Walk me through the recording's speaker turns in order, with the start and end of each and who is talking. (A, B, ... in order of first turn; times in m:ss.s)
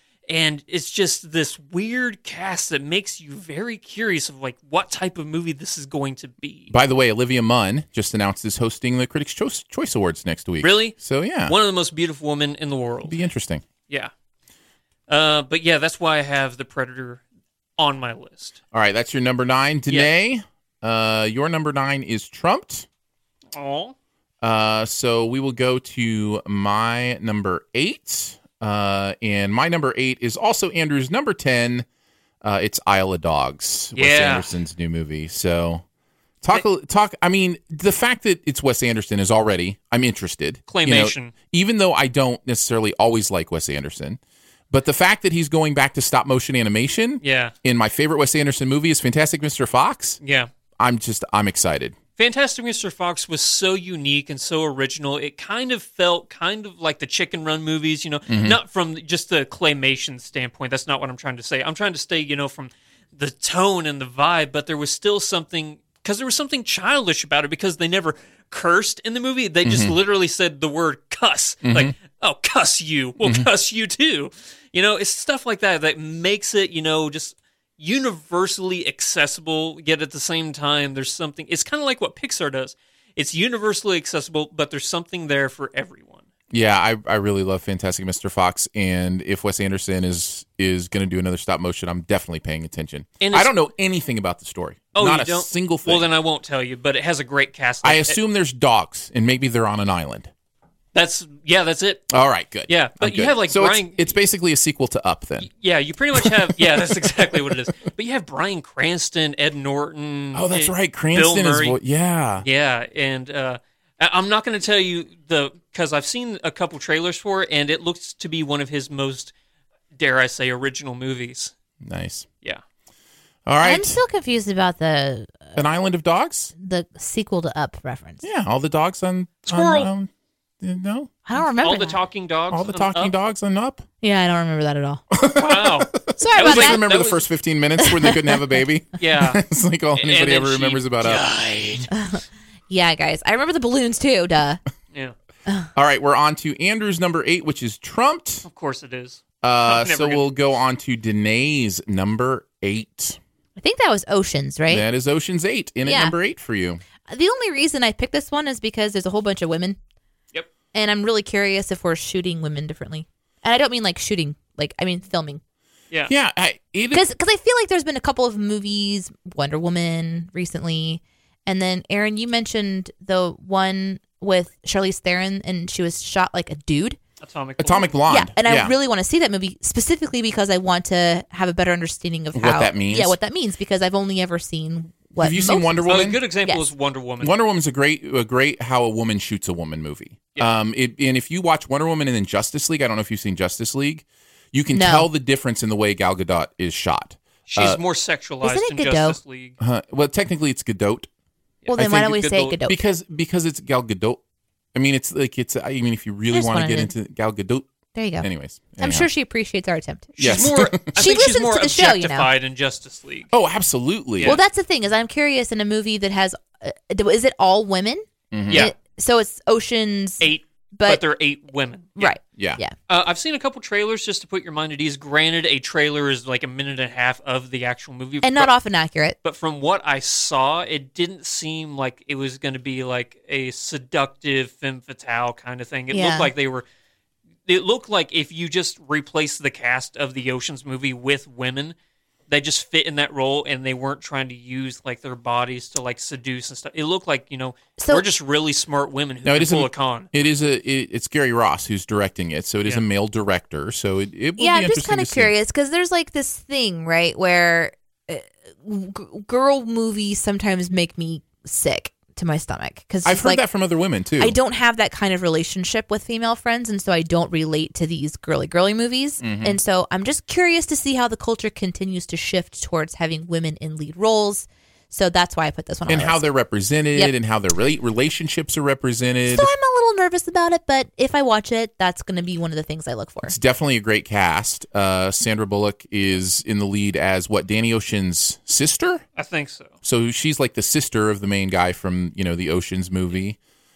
0:00.3-0:06.7 A
0:06.7-0:11.5 B
0:10.6-0:13.2 A
0:13.1-0:13.6 B
0:15.1-0:17.2 A
0:17.8-0:18.6 A
0:18.7-0:22.9 B
0:23.5-0:23.9 A
0:24.4-0:31.8 B
0:32.4-0:35.8 B
0:33.9-0:34.5 A
0:36.4-0:44.2 B
0:40.7-0:41.3 A
0:44.7-0:50.2 B
0:47.2-0:47.5 A
0:50.2-0:50.5 A
0:50.8-0:52.0 B
0:52.2-1:26.2 A
0:58.3-0:58.6 B
1:09.6-1:10.0 B
1:11.6-1:11.9 B
1:13.2-1:13.5 B
1:26.5-1:36.1 B
1:33.2-1:33.5 A
1:34.9-1:38.2 A
1:37.8-1:40.3 B
1:40.9-1:42.1 A
1:42.1-1:45.5 B
1:42.7-1:44.1 A
1:45.4-1:51.8 A
1:50.3-1:52.4 B
1:52.4-1:59.3 A
1:59.9-2:01.5 A
2:01.8-2:02.3 B
2:03.4-2:04.0 B
2:03.6-2:05.6 C
2:05.6-2:06.5 B
2:06.6-2:08.2 C
2:08.2-2:10.1 B
2:09.4-2:09.9 A
2:10.6-2:11.1 B
2:11.2-2:12.0 C
2:11.6-2:13.1 A
2:12.5-2:13.8 B
2:14.0-2:15.0 C
2:15.1-2:21.2 B
2:15.3-2:17.2 A
2:16.2-2:16.8 C
2:17.8-2:18.4 C
2:19.0-2:19.4 A
2:19.9-2:21.9 A
2:21.9-2:24.6 C
2:25.7-2:28.4 B
2:28.4-2:30.3 A
2:29.4-2:33.2 B
2:33.6-2:34.8 C
2:34.7-2:36.8 B
2:35.8-2:36.1 C
2:37.0-2:39.8 C
2:40.7-2:45.4 C
2:46.1-2:47.0 B
2:46.9-2:57.0 C
2:57.2-2:57.9 A
2:57.6-2:58.7 B
2:58.1-3:06.7 C
3:02.3-3:03.2 B
3:05.2-3:06.2 B
3:05.9-3:07.3 A
3:07.2-3:17.8 B
3:14.7-3:15.1 C
3:17.5-3:19.6 A
3:18.4-3:19.2 C
3:19.6-3:21.1 B
3:21.6-3:22.6 A
3:21.7-3:22.8 C
3:21.7-3:24.2 B
3:24.7-3:27.7 B
3:26.3-3:26.9 C
3:27.9-3:28.3 C
3:28.2-3:29.1 B
3:28.8-3:32.3 C
3:30.2-3:33.3 A
3:30.2-3:30.9 B
3:33.3-3:34.4 B
3:34.2-3:41.0 C
3:38.3-3:38.7 B
3:40.2-3:42.2 A
3:42.0-3:42.7 C
3:42.3-3:42.6 B
3:42.9-3:48.5 A
3:48.2-3:49.2 C
3:49.2-3:56.6 A
3:55.9-3:56.3 C
3:57.4-4:01.7 A
4:02.3-4:10.1 A
4:07.8-4:08.0 C
4:09.2-4:15.3 B
4:14.4-4:23.4 C
4:23.0-4:24.4 B
4:24.2-4:36.2 C
4:29.2-4:29.6 B
4:35.9-4:39.5 B
4:39.3-4:43.3 C
4:43.2-4:49.0 B
4:49.2-4:49.7 A
4:49.8-4:53.4 B